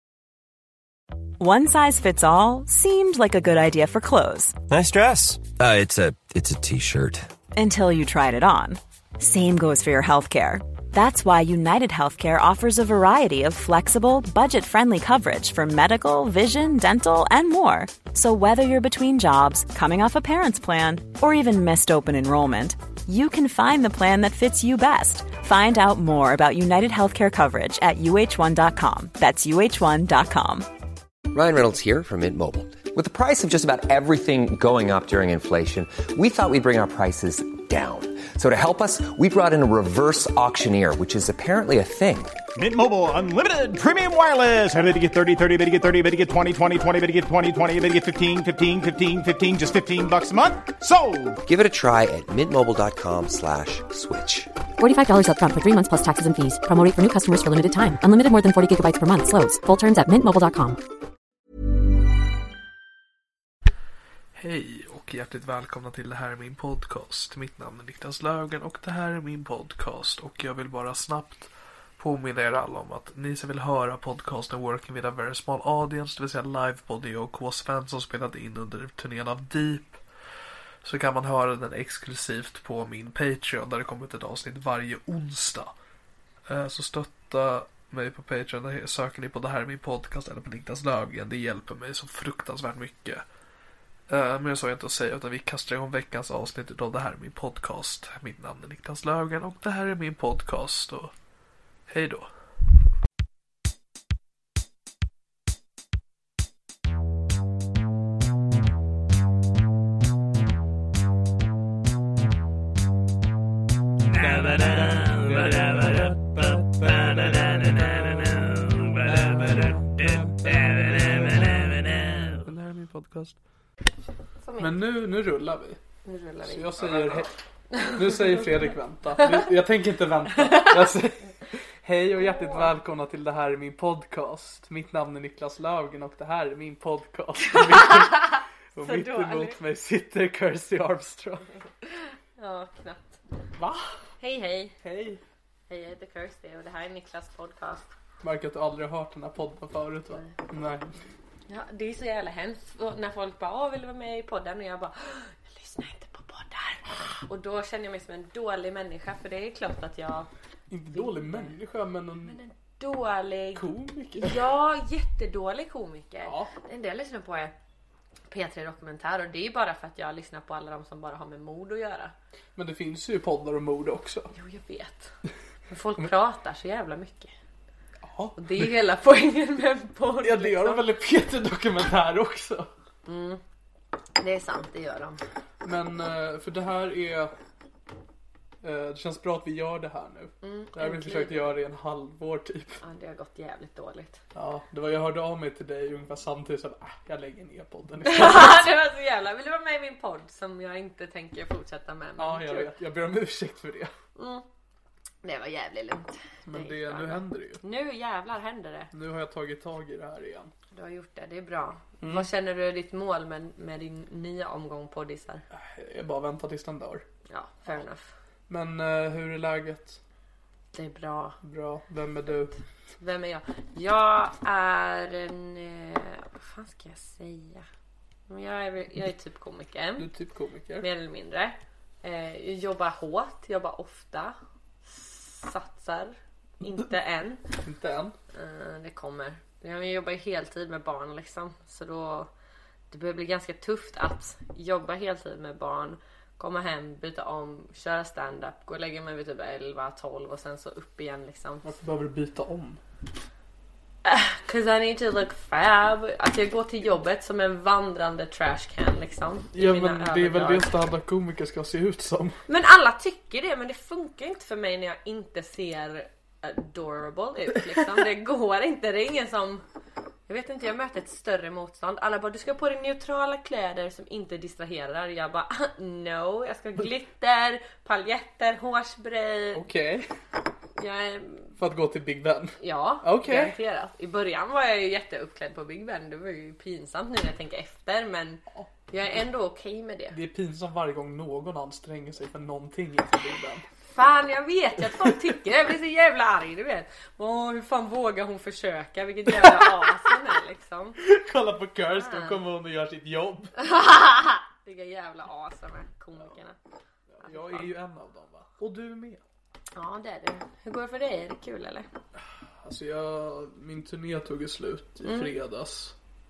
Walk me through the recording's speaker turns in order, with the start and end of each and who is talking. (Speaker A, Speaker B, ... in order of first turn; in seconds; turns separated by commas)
Speaker A: 1.4-4.6, Speaker B: 4.7-7.3, Speaker A: 7.5-30.7, Speaker C: 31.3-42.4, Speaker D: 42.6-51.4, Speaker C: 51.5-54.5, Speaker E: 54.8-60.8, Speaker F: 64.3-80.0, Speaker F: 80.8-85.7, Speaker F: 86.5-93.2, Speaker F: 94.1-101.1, Speaker F: 101.9-102.3, Speaker F: 114.0-123.4, Speaker G: 124.4-124.7, Speaker F: 124.6-125.8, Speaker G: 126.0-128.4, Speaker F: 126.4-141.5, Speaker G: 130.5-130.9, Speaker G: 132.2-132.7, Speaker G: 137.5-139.6, Speaker G: 141.9-143.2, Speaker F: 143.6-144.0, Speaker G: 144.2-144.8, Speaker F: 144.8-145.2, Speaker G: 145.7-147.9, Speaker F: 148.2-150.9, Speaker G: 151.5-160.3, Speaker F: 160.7-162.4, Speaker G: 160.9-161.6, Speaker G: 162.2-163.7, Speaker F: 163.5-164.4, Speaker G: 164.2-167.5, Speaker F: 166.2-166.5, Speaker G: 168.3-172.1, Speaker F: 172.6-174.3, Speaker G: 174.3-175.1, Speaker G: 175.7-177.3, Speaker F: 178.0-178.7, Speaker G: 178.4-180.9, Speaker F: 180.2-182.7, Speaker G: 183.1-183.4, Speaker G: 184.2-185.2, Speaker F: 185.6-187.3, Speaker F: 188.6-192.8, Speaker G: 190.4-191.5, Speaker G: 192.8-194.2, Speaker F: 194.3-198.6, Speaker G: 198.0-202.7, Speaker F: 202.2-203.9, Speaker G: 204.2-204.4, Speaker G: 205.2-208.9, Speaker F: 206.5-207.6, Speaker F: 208.9-210.5, Speaker G: 210.7-215.4, Speaker F: 212.0-212.3, Speaker F: 215.5-217.1, Speaker G: 217.3-218.1, Speaker F: 218.5-220.0, Speaker G: 220.7-221.4, Speaker F: 221.4-222.5, Speaker G: 222.9-227.6, Speaker G: 228.3-230.1, Speaker F: 230.0-230.9, Speaker G: 230.8-237.4, Speaker F: 237.6-238.2, Speaker G: 238.3-242.3, Speaker G: 242.9-251.7, Speaker F: 251.6-252.8, Speaker G: 254.1-260.7, Speaker F: 259.5-262.4, Speaker G: 262.5-269.6, Speaker G: 270.3-279.6, Speaker F: 279.5-280.1, Speaker G: 280.8-281.6, Speaker F: 281.6-283.6, Speaker G: 282.6-290.2, Speaker F: 290.1-293.7, Speaker G: 293.8-301.0, Speaker F: 299.4-299.7, Speaker F: 301.0-303.5, Speaker G: 301.9-302.4, Speaker G: 303.6-306.6, Speaker F: 307.1-309.2, Speaker G: 307.2-307.7, Speaker G: 309.8-311.9, Speaker F: 312.6-316.0, Speaker G: 315.0-315.3